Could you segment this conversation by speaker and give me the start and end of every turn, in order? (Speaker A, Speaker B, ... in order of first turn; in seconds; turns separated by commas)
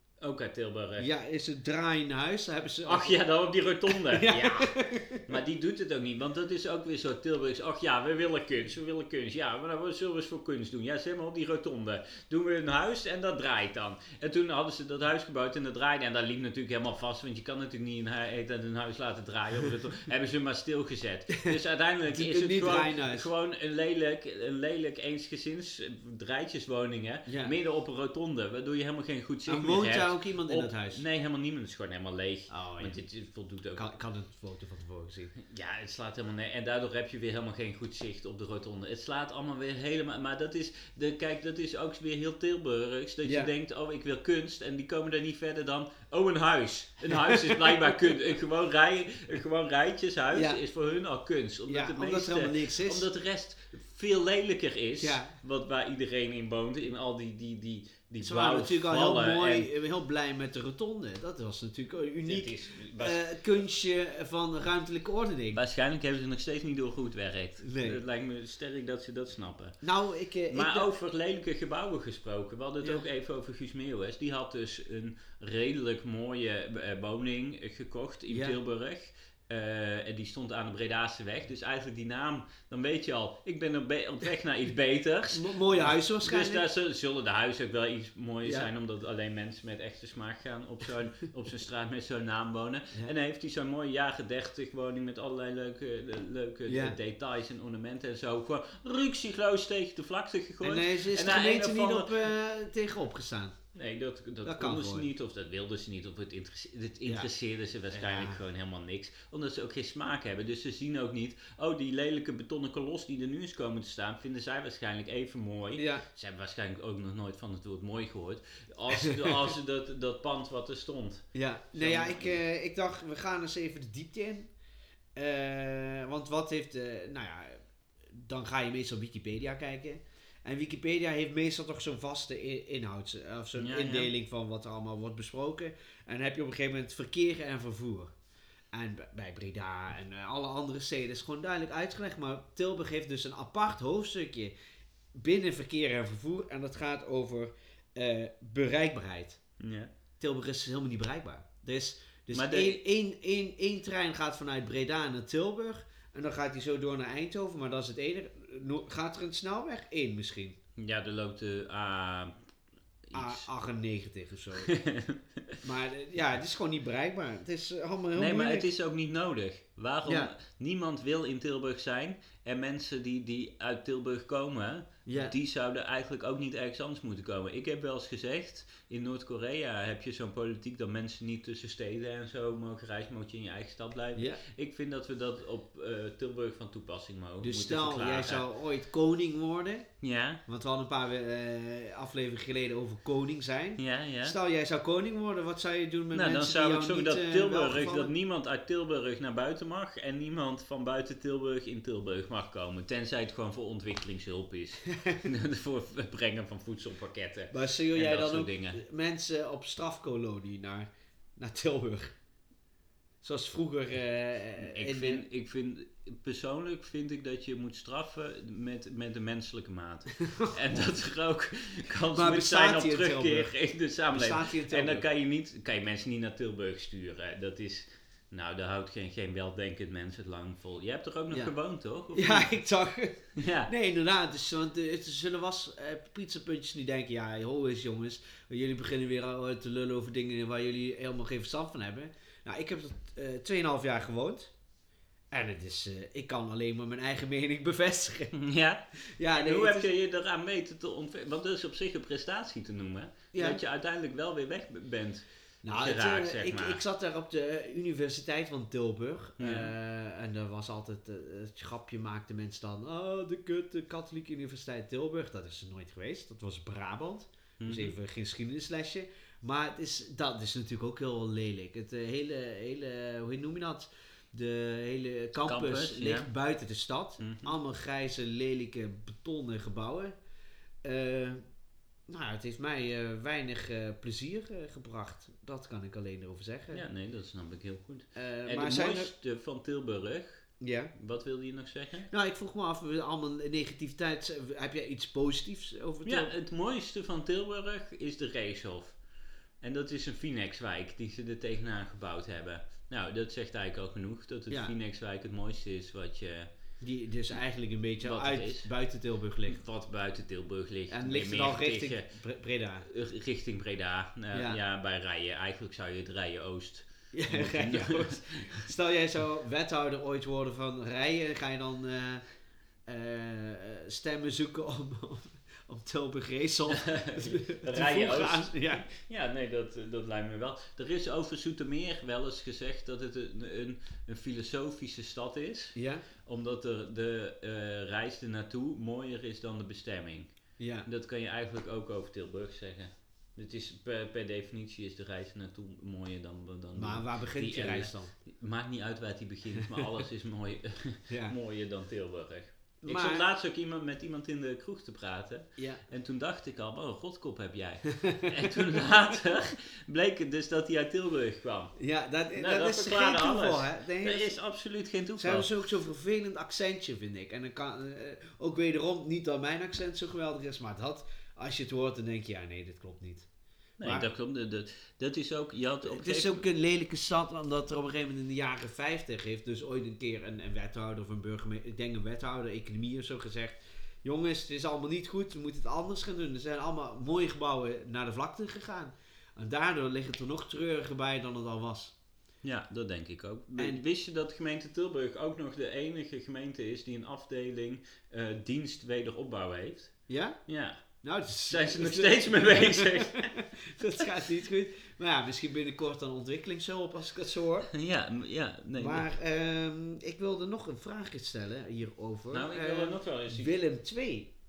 Speaker A: 0.2-1.1, Speaker B: 1.0-3.2, Speaker A: 2.8-33.9, Speaker B: 3.9-5.3, Speaker B: 22.1-23.3, Speaker B: 27.3-27.5, Speaker B: 29.5-31.0, Speaker B: 32.5-33.0, Speaker B: 33.8-35.3, Speaker A: 35.4-59.7, Speaker B: 43.2-43.5, Speaker B: 47.0-48.1, Speaker B: 50.3-50.6, Speaker B: 51.7-53.1, Speaker B: 55.0-55.3, Speaker B: 58.2-65.6, Speaker A: 62.2-63.4, Speaker A: 65.5-69.8, Speaker B: 67.6-68.0, Speaker B: 69.8-70.9, Speaker A: 70.5-102.2, Speaker B: 78.3-78.6, Speaker B: 85.3-86.7, Speaker B: 88.4-88.7, Speaker B: 96.7-97.0, Speaker B: 100.6-103.5, Speaker A: 103.7-122.4, Speaker B: 104.4-105.1, Speaker B: 107.9-108.4, Speaker B: 115.8-116.0, Speaker B: 118.9-119.5, Speaker B: 121.3-124.5, Speaker B: 125.2-127.6, Speaker B: 128.1-138.1, Speaker A: 133.6-134.1, Speaker B: 138.7-144.5, Speaker B: 145.1-149.4, Speaker A: 149.6-149.9, Speaker B: 150.2-160.6, Speaker A: 152.3-152.8, Speaker A: 160.8-162.3, Speaker A: 163.1-163.5, Speaker B: 163.1-164.7, Speaker A: 164.6-165.6, Speaker B: 165.6-168.7, Speaker A: 168.1-188.4, Speaker B: 170.0-170.3, Speaker B: 175.1-175.3, Speaker B: 184.2-184.4, Speaker B: 187.4-189.9, Speaker A: 190.0-190.4, Speaker B: 190.5-198.1, Speaker A: 193.8-194.3, Speaker A: 196.1-208.8, Speaker B: 204.9-205.2, Speaker B: 207.5-212.1, Speaker B: 213.2-215.2, Speaker A: 214.6-232.6, Speaker B: 222.1-223.6, Speaker B: 224.1-225.1, Speaker B: 232.1-244.5, Speaker A: 233.3-233.7, Speaker B: 245.3-248.3, Speaker A: 248.3-256.8, Speaker B: 249.2-249.9, Speaker B: 253.3-253.6, Speaker B: 255.6-280.1, Speaker A: 259.4-259.7, Speaker A: 267.6-267.9, Speaker A: 275.4-276.3, Speaker A: 277.2-277.6, Speaker B: 280.8-281.4, Speaker B: 282.1-286.8, Speaker A: 286.7-292.1, Speaker B: 288.1-289.1, Speaker B: 290.6-290.9, Speaker B: 292.1-296.3, Speaker A: 296.0-299.0, Speaker A: 299.6-306.5, Speaker B: 306.8-309.6, Speaker A: 308.0-308.7, Speaker A: 309.4-312.1, Speaker B: 310.9-312.9, Speaker A: 312.9-318.6, Speaker B: 314.3-314.6, Speaker B: 317.1-322.2, Speaker B: 322.9-328.9, Speaker A: 326.7-340.3, Speaker B: 335.7-336.0, Speaker B: 340.6-340.9, Speaker A: 340.8-361.7, Speaker B: 346.7-348.1, Speaker B: 349.6-349.9, Speaker B: 351.1-351.4, Speaker B: 352.8-353.2, Speaker B: 355.6-355.8, Speaker B: 358.0-358.8, Speaker B: 361.8-364.3, Speaker A: 362.3-365.5, Speaker B: 365.2-373.3, Speaker A: 373.8-376.4, Speaker B: 373.8-374.1, Speaker B: 375.8-391.9, Speaker A: 392.4-399.9, Speaker B: 393.6-393.8, Speaker B: 400.1-400.4, Speaker A: 400.4-400.8, Speaker B: 401.0-407.7, Speaker A: 401.5-403.3, Speaker A: 407.7-409.1, Speaker B: 408.8-414.3, Speaker A: 412.3-413.5